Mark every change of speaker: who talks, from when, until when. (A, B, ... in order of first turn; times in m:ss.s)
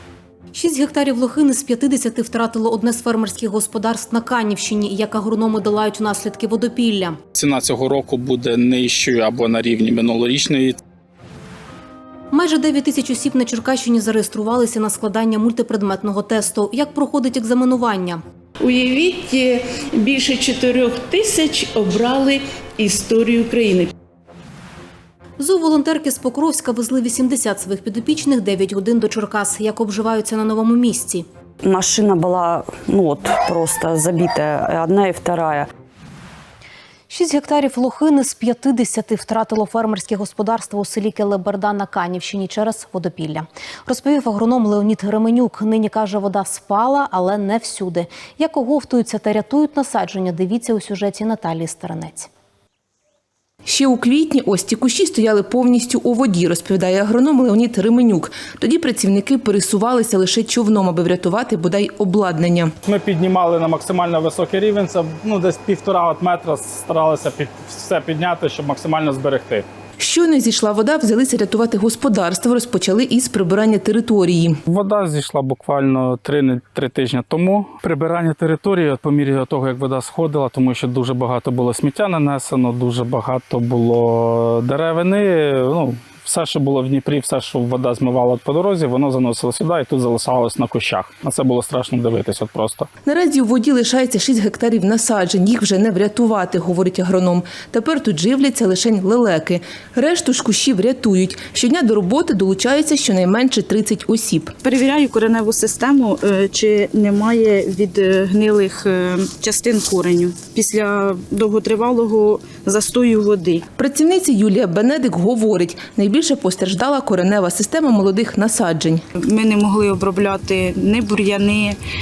0:00.5-0:07.2 A
0:07.3-0:10.8 B
0:12.3-0:18.2 A
0:18.6-0:23.9 C
0:25.4-0:31.2 A
0:31.6-0:35.7 D
0:37.1-0:52.3 A
0:53.6-1:02.7 E
1:02.8-1:09.7 B
1:10.0-1:14.6 E
1:14.7-1:32.9 B
1:33.0-1:44.7 E
1:44.7-1:53.6 F
1:53.5-1:59.0 E
1:59.3-2:01.7 F